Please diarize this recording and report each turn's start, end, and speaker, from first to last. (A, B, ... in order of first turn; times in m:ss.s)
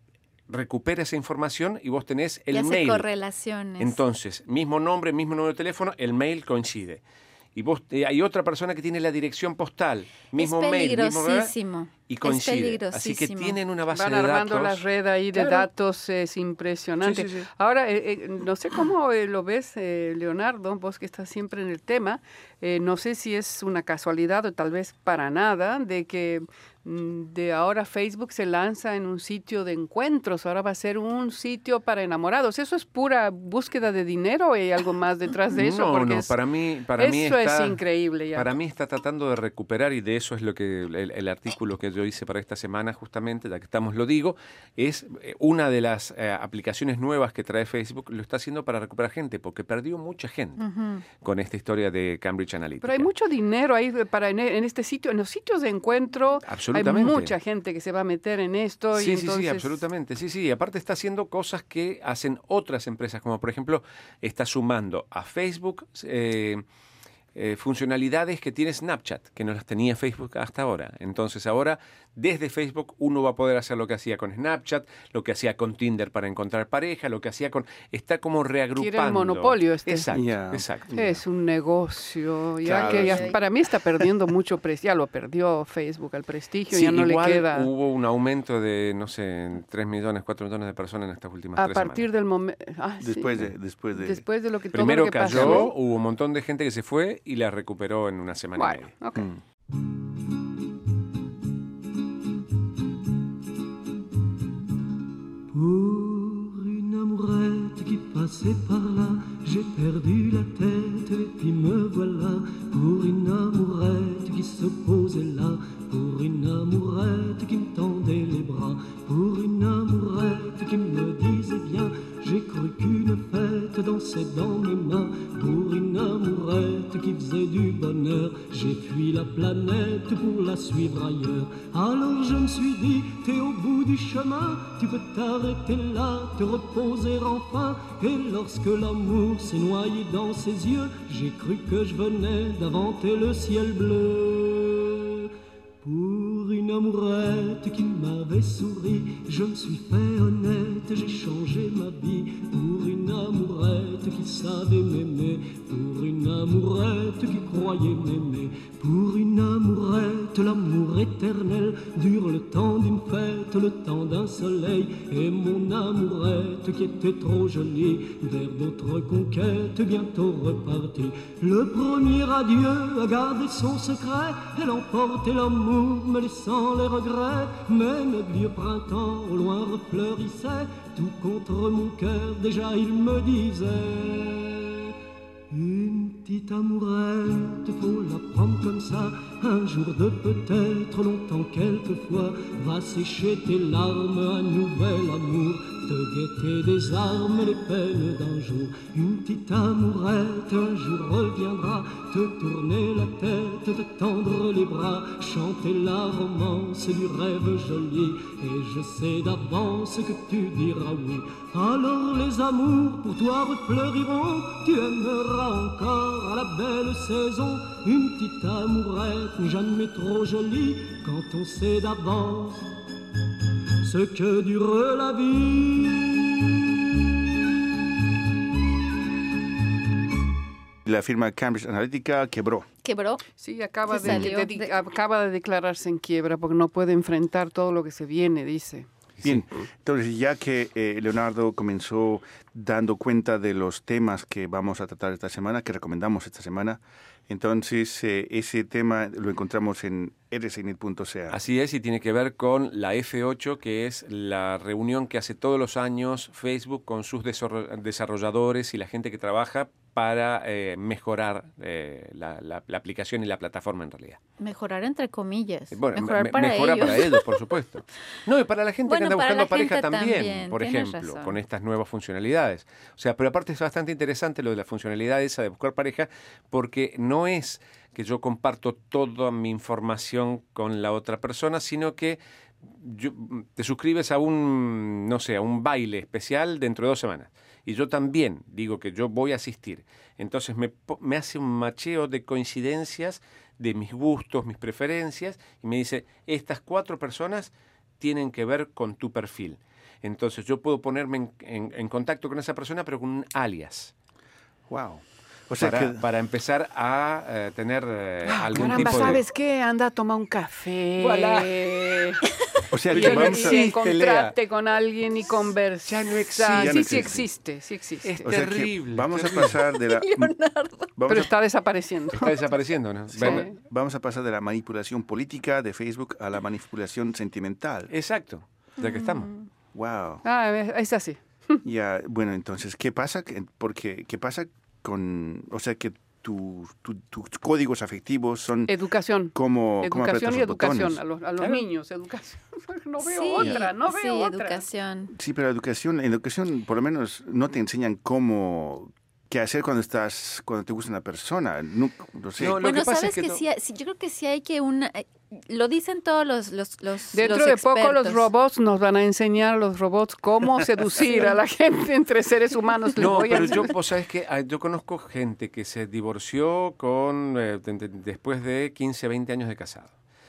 0:00.5-0:03.1 A
0:02.5-0:04.0 B
0:03.8-0:07.0 A
0:07.5-0:11.5 A
0:10.4-0:13.6 B
0:12.1-0:15.7 A
0:13.9-0:36.3 C
0:17.0-0:17.5 A
0:35.5-0:37.8 A
0:37.0-0:38.5 C
0:38.3-0:50.6 A
0:50.6-0:51.0 B
0:51.2-0:53.1 A
0:52.8-0:59.7 C
0:56.4-0:57.3 A
0:58.9-1:06.6 A
1:07.3-1:21.0 A
1:18.8-1:20.1 C
1:20.1-1:21.2 D
1:20.9-1:27.7 C
1:22.6-1:23.4 D
1:22.8-1:23.4 B
1:26.7-1:32.0 A
1:31.6-1:33.4 C
1:33.0-1:34.2 D
1:33.9-1:35.7 C
1:34.7-1:38.9 A
1:35.3-1:35.7 D
1:38.6-1:39.3 C
1:45.5-2:25.3 E
2:25.8-3:04.9 E
3:05.5-3:42.7 E
3:43.8-3:46.4 E
3:50.8-3:52.7 D
3:52.8-3:53.2 B
3:53.4-3:58.9 C
3:53.9-3:54.7 B
3:59.2-4:11.4 D
4:11.3-4:24.2 A
4:24.4-4:27.2 B
4:25.7-5:03.9 A
4:28.9-4:31.4 B
5:04.7-5:06.0 D
5:05.6-5:09.2 A
5:08.2-5:12.2 C
5:08.5-5:09.2 D
5:11.0-5:11.7 A
5:12.7-5:13.7 D
5:12.9-5:14.3 A
5:12.9-5:18.3 C
5:15.8-5:17.2 A
5:16.5-5:17.2 D
5:18.0-5:19.6 A
5:18.2-5:20.3 D
5:19.6-5:20.9 B
5:20.9-5:21.3 D
5:21.1-5:22.4 C
5:22.1-5:23.5 A
5:23.1-5:27.9 D
5:23.2-5:23.5 C
5:27.9-5:29.3 A
5:28.8-5:29.5 B
5:29.7-5:30.2 D
5:30.2-5:31.6 C
5:31.6-5:38.7 D
5:38.7-5:44.6 C
5:39.3-5:41.0 D
5:43.0-5:45.1 B
5:45.1-5:52.6 D
5:52.4-5:53.4 A
5:52.6-5:58.3 B
5:57.1-6:03.7 C
6:03.0-6:09.9 A